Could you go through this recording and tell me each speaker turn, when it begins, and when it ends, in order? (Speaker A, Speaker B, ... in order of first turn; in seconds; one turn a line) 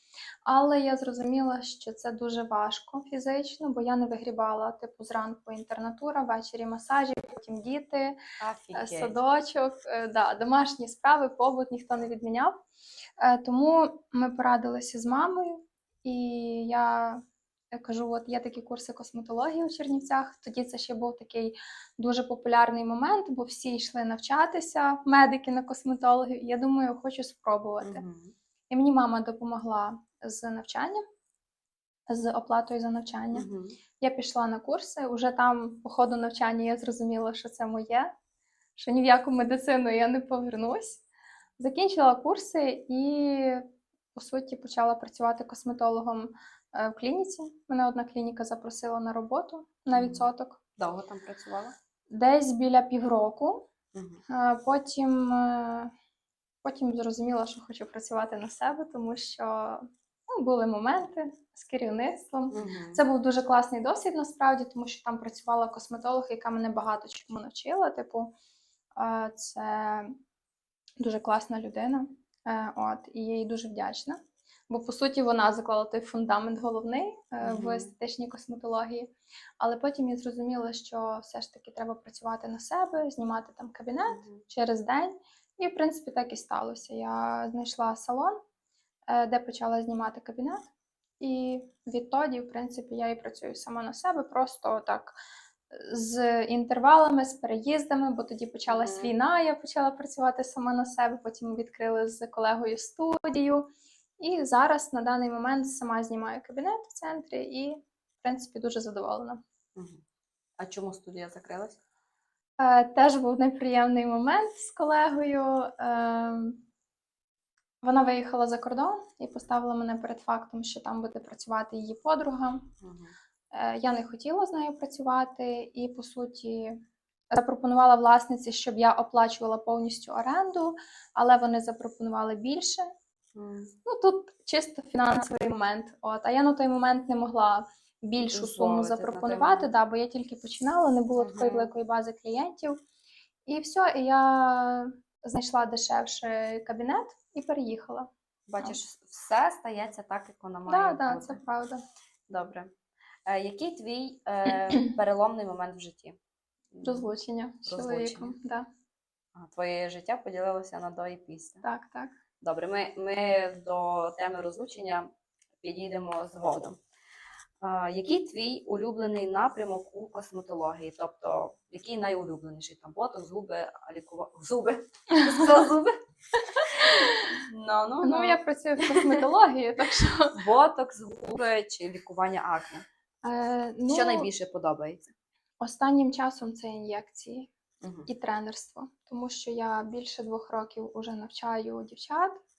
Speaker A: 0.5-8.2
Speaker B: 8.4-9.2
Speaker A: 8.7-12.6
Speaker A: 13.2-28.0
Speaker B: 27.8-28.3
Speaker A: 28.7-31.0
Speaker A: 32.1-33.5
Speaker B: 33.3-33.8
Speaker A: 34.0-38.1
Speaker A: 38.8-41.0
Speaker A: 41.6-50.6
Speaker B: 49.9-51.8
Speaker A: 52.1-53.7
Speaker B: 53.9-54.2
Speaker A: 54.3-55.9
Speaker A: 56.6-68.3
Speaker B: 62.5-63.0
Speaker A: 69.0-70.2
Speaker A: 71.0-88.4
Speaker B: 77.4-77.9
Speaker B: 84.1-84.4
Speaker A: 89.1-90.7
Speaker A: 91.2-95.2
Speaker A: 95.7-103.7
Speaker B: 98.7-99.1
Speaker A: 104.2-109.4
Speaker B: 109.8-110.0
Speaker B: 110.6-111.8
Speaker A: 112.6-116.6
Speaker A: 117.8-122.7
Speaker B: 122.8-123.2
Speaker A: 123.5-132.9
Speaker B: 133.3-133.8
Speaker A: 133.8-142.8
Speaker B: 138.2-139.7
Speaker B: 141.2-141.7
Speaker A: 143.5-148.8
Speaker B: 148.5-151.4
Speaker A: 150.7-151.8
Speaker B: 152.3-152.7
Speaker B: 153.3-156.2
Speaker B: 156.7-157.1
Speaker A: 156.8-158.7
Speaker B: 157.7-158.4
Speaker B: 159.3-161.6
Speaker A: 161.6-162.2
Speaker B: 162.4-166.8
Speaker B: 167.6-175.9
Speaker A: 176.6-177.2
Speaker B: 176.7-179.2
Speaker A: 178.0-180.4
Speaker B: 180.3-182.9
Speaker A: 183.2-184.3
Speaker B: 183.9-185.1
Speaker A: 185.6-187.5
Speaker B: 187.8-188.1
Speaker A: 188.1-192.4